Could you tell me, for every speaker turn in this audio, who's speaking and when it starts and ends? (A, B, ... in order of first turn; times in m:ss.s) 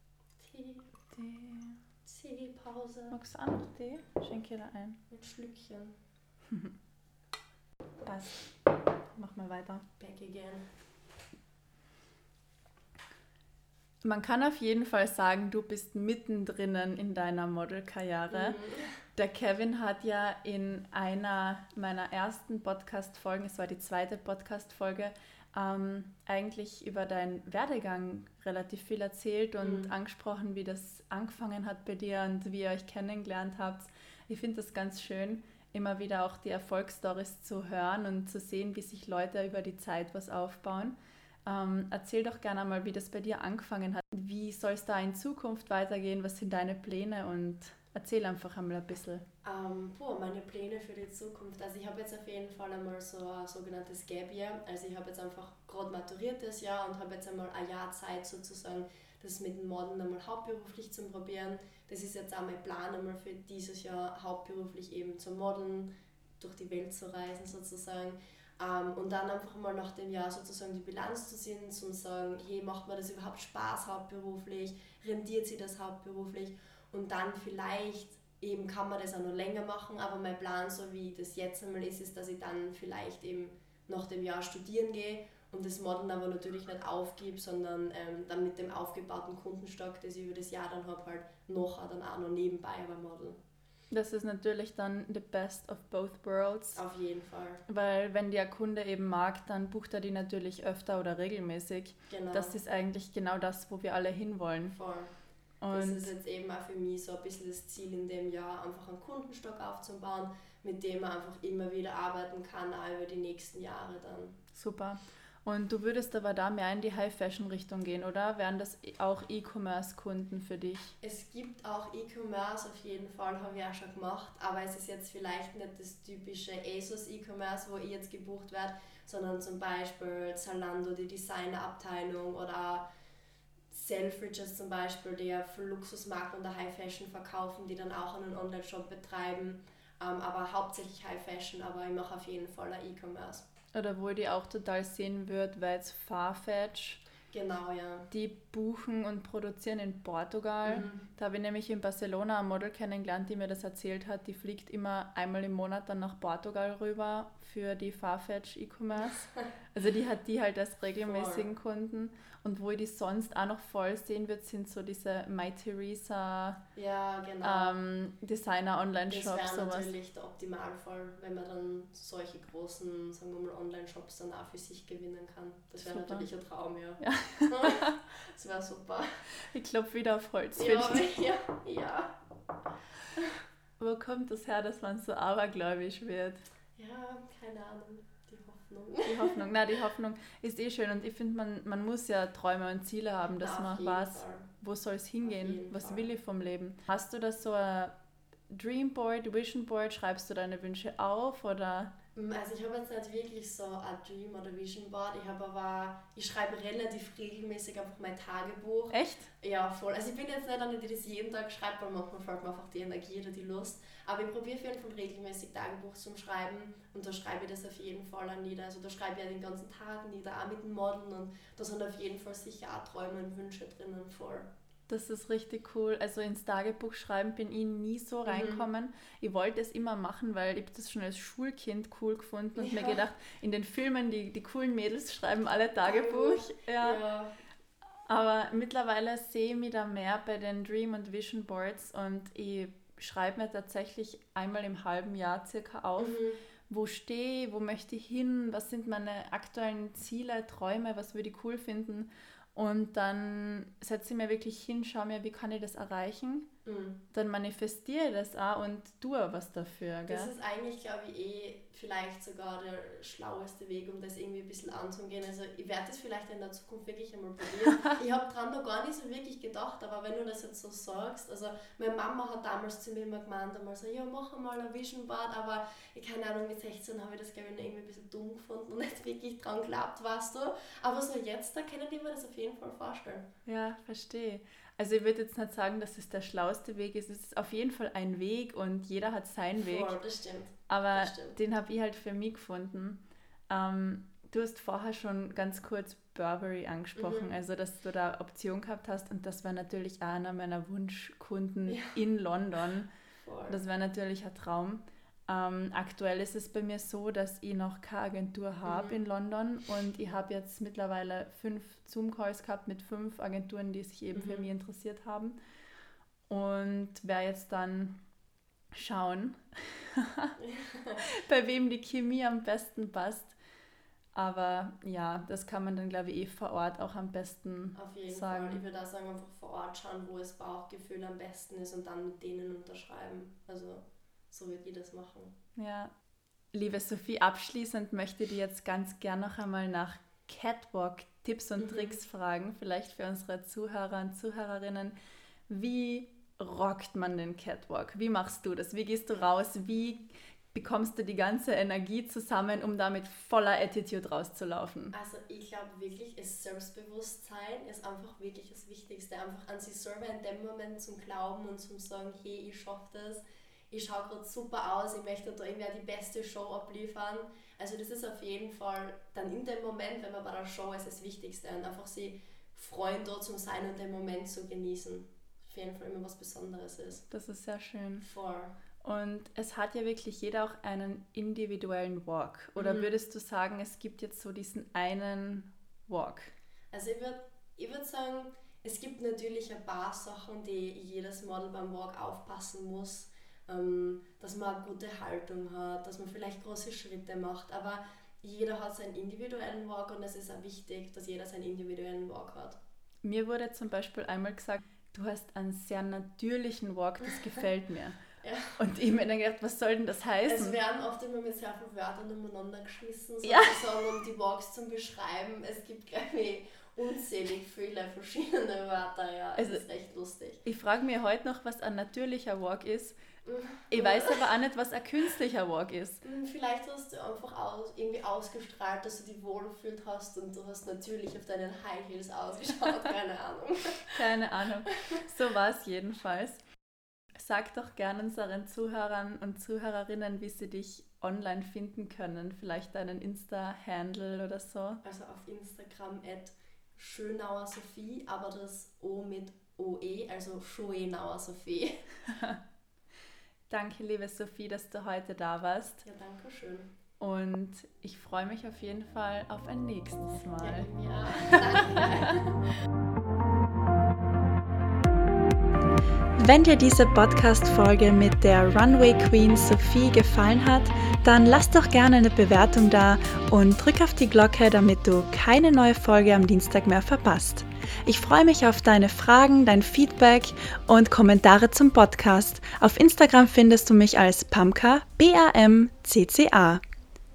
0:00.4-0:00.9 A
0:01.1-0:01.8 B
0:02.0-0:03.2 A
0:03.1-0:05.0 B
0:05.1-0:06.0 A
0:08.0-0:08.5 B
0:09.1-0:09.8 B
0:10.0-0:10.7 A
0:14.0-0:18.6 B
0:18.3-0:19.0 A
0:19.1-0:49.2 B
0:29.6-0:29.9 A
0:49.4-1:33.4 A
1:33.9-1:36.8 B
1:36.7-1:37.6 A
1:37.7-1:44.8 B
1:42.1-1:42.6 A
1:44.7-1:45.1 A
1:45.6-1:46.1 B
1:45.7-1:54.4 A
1:54.5-2:00.9 B
2:01.0-2:12.8 A
2:13.7-2:23.4 A
2:23.7-2:27.0 B
2:27.3-2:28.1 A
2:28.1-2:46.6 B
2:30.6-2:31.0 A
2:41.0-2:41.5 A
2:46.7-2:47.8 A
2:47.4-2:49.9 B
2:49.1-2:59.3 A
2:55.8-2:56.3 B
2:57.0-2:57.9 B
2:59.4-3:01.1 B
3:00.6-3:02.2 A
3:03.8-3:06.4 B
3:06.8-3:09.4 A
3:09.0-3:17.9 B
3:13.4-3:14.5 A
3:15.2-3:16.1 A
3:18.5-3:21.9 B
3:22.1-3:44.5 A
3:28.9-3:29.3 B
3:44.9-3:57.0 B
3:48.2-3:48.6 A
3:52.6-3:53.0 A
3:55.8-3:57.4 A
3:58.1-4:16.5 B
4:06.0-4:06.4 A
4:16.6-4:17.0 A
4:17.1-4:20.3 B
4:20.1-4:43.3 A
4:43.4-4:50.0 B
4:49.6-4:51.4 A
4:50.7-5:02.9 B
4:57.0-4:57.3 A
5:01.7-5:01.9 A
5:03.2-5:03.6 A
5:03.5-5:15.4 B
5:08.6-5:09.0 A
5:14.2-5:14.5 A
5:16.3-5:18.0 B
5:18.7-5:20.3 B
5:20.4-5:21.0 A
5:21.1-5:23.4 B
5:24.1-5:28.6 B
5:27.7-5:35.3 A
5:35.6-5:35.9 B
5:36.5-5:44.9 B
5:41.6-5:42.0 A
5:45.5-5:54.9 B
5:54.9-6:17.0 A
6:17.1-6:18.0 B
6:18.0-6:18.5 A
6:18.8-6:26.3 B
6:22.6-6:22.9 A
6:26.7-6:42.6 A
6:43.0-6:48.0 B
6:48.2-6:48.6 A
6:48.6-6:50.6 B
6:50.3-7:00.4 A
6:53.2-6:53.7 B
6:59.4-6:59.6 B
7:00.4-7:03.0 B
7:03.2-7:04.2 A
7:03.7-7:06.0 B
7:06.0-7:14.0 A
7:13.9-7:16.4 B
7:17.2-7:24.8 B
7:24.8-7:31.9 A
7:32.1-7:32.4 B
7:33.5-7:35.8 B
7:35.8-7:36.7 A
7:37.0-7:40.7 B
7:40.4-7:42.4 A
7:46.2-8:06.6 B